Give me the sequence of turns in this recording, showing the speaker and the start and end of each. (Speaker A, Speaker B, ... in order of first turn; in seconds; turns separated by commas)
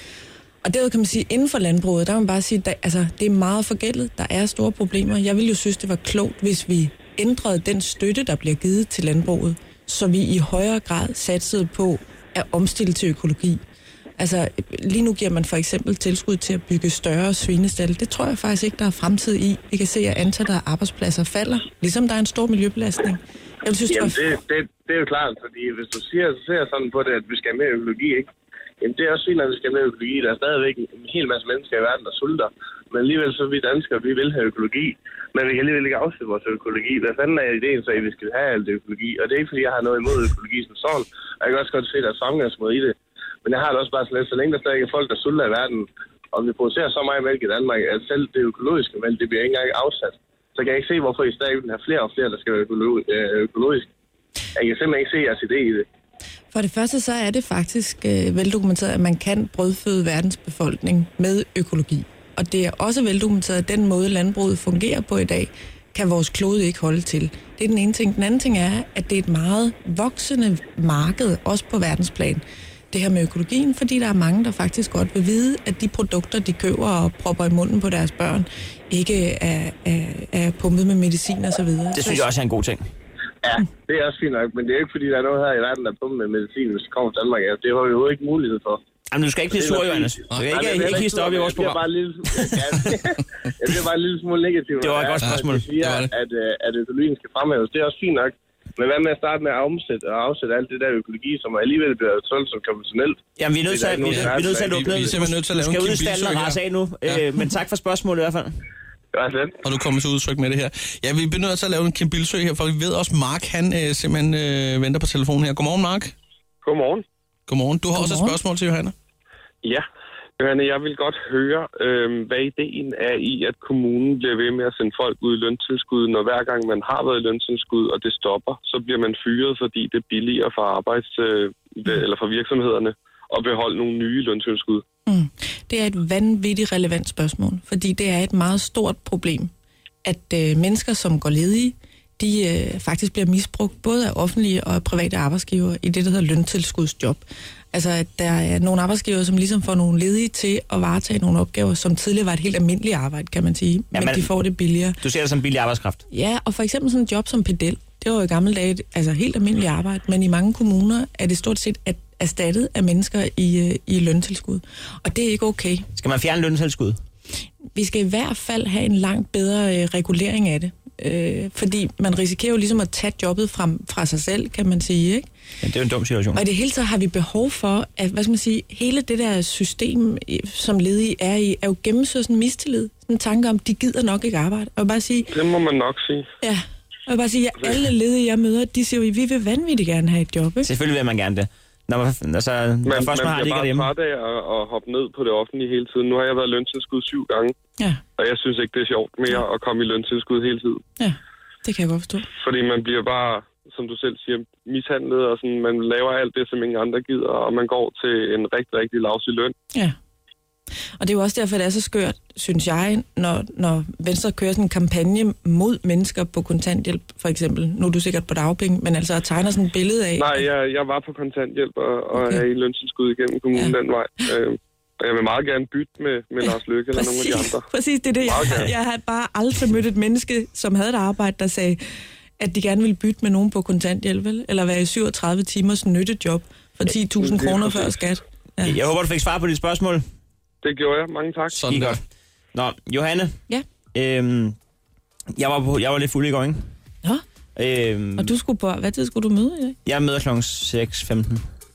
Speaker A: 0.6-13.6, Speaker A: 14.2-24.2, Speaker B: 23.9-28.3, Speaker B: 28.8-53.9, Speaker B: 54.5-55.9, Speaker A: 56.5-82.3, Speaker C: 81.9-82.8, Speaker B: 83.4-88.8, Speaker C: 89.1-91.8, Speaker B: 89.5-105.2, Speaker D: 90.3-90.9, Speaker C: 94.8-95.7, Speaker D: 95.2-96.1, Speaker C: 103.4-108.5, Speaker D: 104.0-107.2, Speaker B: 109.1-109.5, Speaker D: 109.6-116.1, Speaker E: 116.6-117.0, Speaker D: 117.5-118.9, Speaker A: 117.9-118.4, Speaker E: 120.4-134.8, Speaker A: 135.1-139.5, Speaker A: 140.0-155.0, Speaker C: 153.9-154.3, Speaker C: 155.0-156.0, Speaker A: 156.1-165.8, Speaker C: 165.9-167.0, Speaker A: 167.7-175.2, Speaker C: 175.6-176.4, Speaker A: 176.3-185.3, Speaker E: 185.3-186.3, Speaker A: 186.4-190.7, Speaker C: 190.6-193.9, Speaker E: 192.8-197.5, Speaker E: 198.2-200.8, Speaker A: 201.0-202.3, Speaker E: 202.3-209.5, Speaker A: 211.0-220.4, Speaker E: 220.2-227.6, Speaker A: 222.2-222.4, Speaker A: 226.4-231.8, Speaker E: 228.2-228.7, Speaker A: 232.4-238.8, Speaker C: 238.6-240.0, Speaker E: 240.6-241.6, Speaker D: 241.5-242.0, Speaker C: 241.7-242.0, Speaker C: 242.5-243.4, Speaker C: 243.9-244.6, Speaker C: 245.3-246.6, Speaker C: 247.6-248.3, Speaker A: 248.2-249.8, Speaker C: 249.8-251.4